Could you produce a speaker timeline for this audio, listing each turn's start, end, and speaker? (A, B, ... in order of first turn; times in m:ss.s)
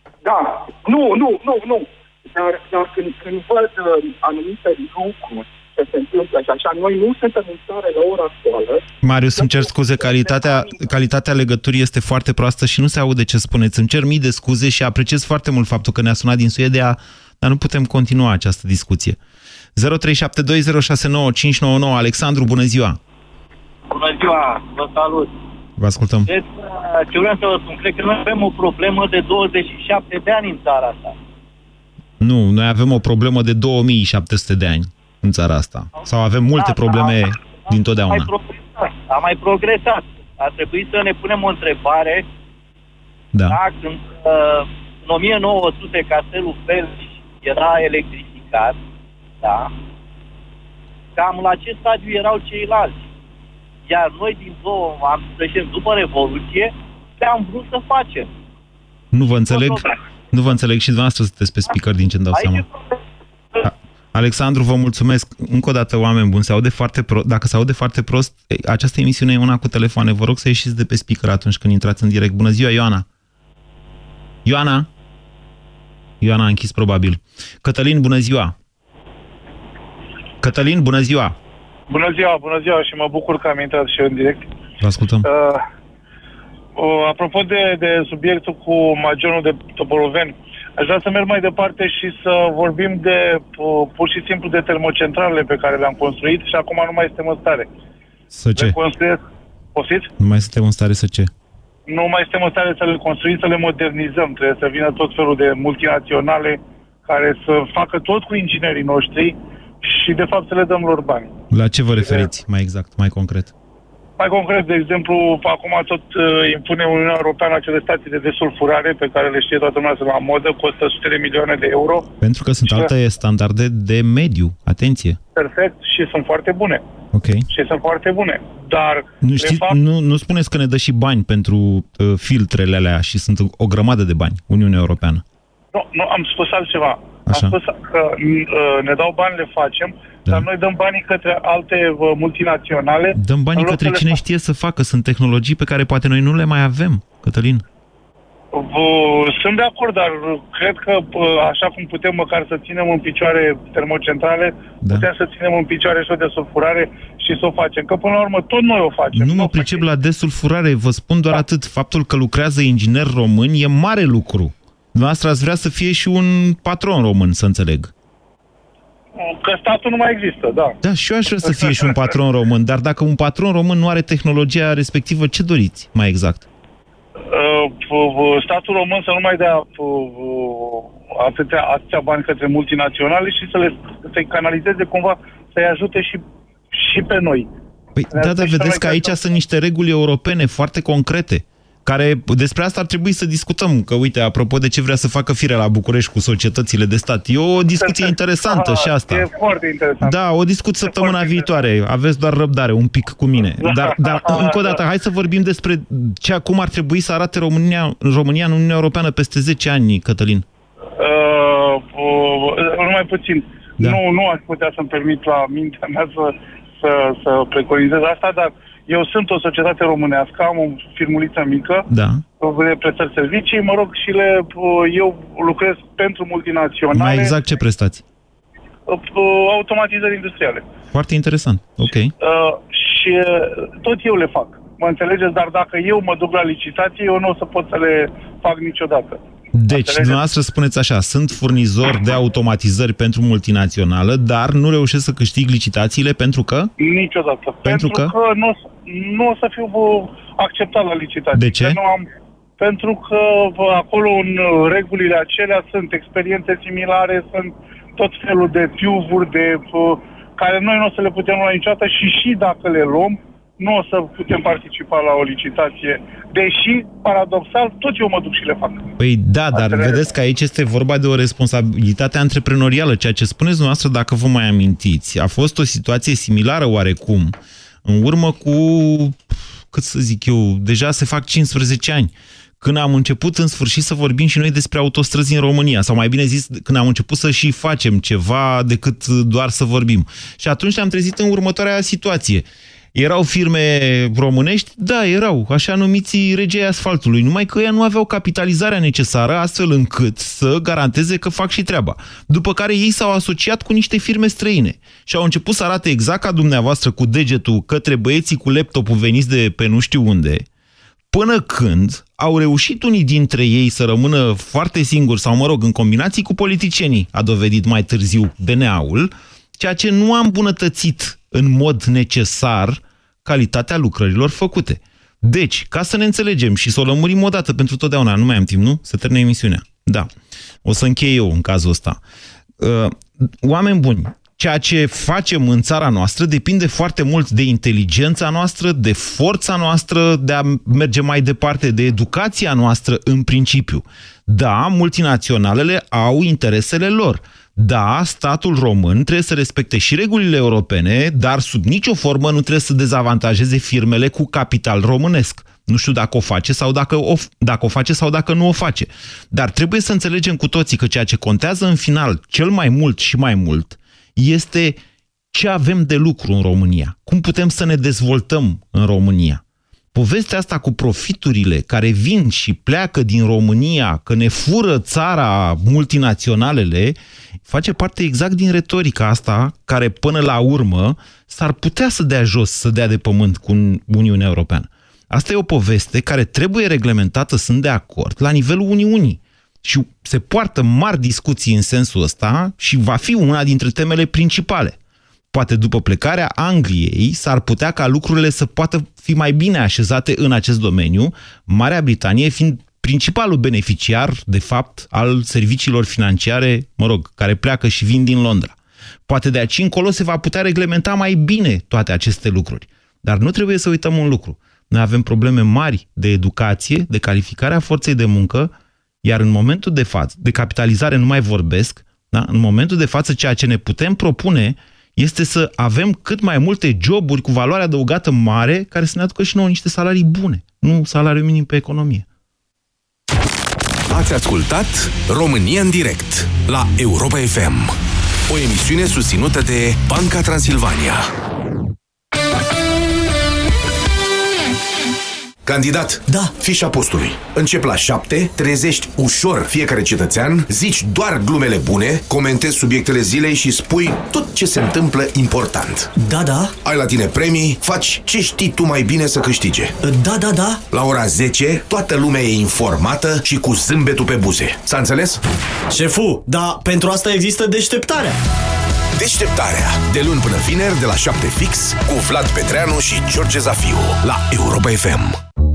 0:00.2-0:08.8 A
0:09.0-0:19.2 B
0:09.4-0:10.9 A
0:19.7-0:23.0 B
0:23.9-0:25.3 C
0:25.8-0:26.3 B
0:26.3-0:31.1 C
0:32.2-0:38.3 B
0:36.6-0:42.2 C
0:43.3-0:43.6 B
0:43.5-0:48.8 C
0:49.4-0:49.7 C
0:51.2-0:53.1 C
0:53.8-0:58.3 C
0:59.1-1:02.6 B
0:59.5-0:59.9 C
1:02.3-1:03.0 C
1:03.6-1:13.0 B
1:14.4-1:14.9 B
1:16.2-1:18.5 B
1:20.4-1:21.4 B
1:21.9-1:24.4 D
1:24.8-1:25.2 B
1:25.2-1:25.6 D
1:26.8-1:37.7 D
1:38.3-1:38.8 B
1:38.6-1:39.2 D
1:39.7-1:40.1 D
1:40.2-1:41.3 B
1:41.9-1:51.4 D
1:51.5-1:53.5 B
1:52.0-1:52.3 D
1:54.2-2:02.1 D
2:02.2-2:05.2 B
2:05.4-2:06.8 D
2:07.1-2:07.5 B
2:07.5-2:09.8 D
2:09.2-2:15.2 B
2:15.7-2:24.2 D
2:17.3-2:17.6 B
2:23.1-2:27.6 B
2:28.5-2:39.8 D
2:34.8-2:35.1 B
2:39.1-2:47.9 B
2:49.2-2:50.8 D
2:50.8-2:56.4 B
2:51.4-2:52.1 D
2:57.3-3:07.5 D
3:08.0-3:19.2 B
3:08.1-3:09.2 D
3:17.8-3:20.2 D
3:20.0-3:30.4 B
3:20.8-3:21.5 D
3:23.6-3:24.8 D
3:31.0-3:41.9 D
3:41.9-3:42.2 B
3:42.4-3:47.4 D
3:46.9-3:48.0 B
3:48.9-3:50.6 D
3:50.9-3:52.1 B
3:52.2-4:00.2 D
3:59.5-4:06.7 B
4:06.8-4:12.1 D
4:07.6-4:08.1 B
4:11.3-4:11.8 B
4:12.6-4:28.9 D
4:29.0-5:10.4 B
4:29.5-4:30.1 D
5:11.1-5:30.1 B
5:30.6-5:32.0 B
5:32.6-6:04.8 B
6:05.3-6:09.4 B
6:09.9-6:34.8 B
6:35.3-6:48.6 B
6:49.1-6:58.5 B
6:59.0-7:12.0 B
7:13.9-7:17.7 E
7:18.3-7:21.1 E
7:25.4-7:35.9 E
7:36.6-7:39.8 E
7:40.7-7:45.2 E
7:45.7-7:48.1 F
7:49.0-7:55.2 E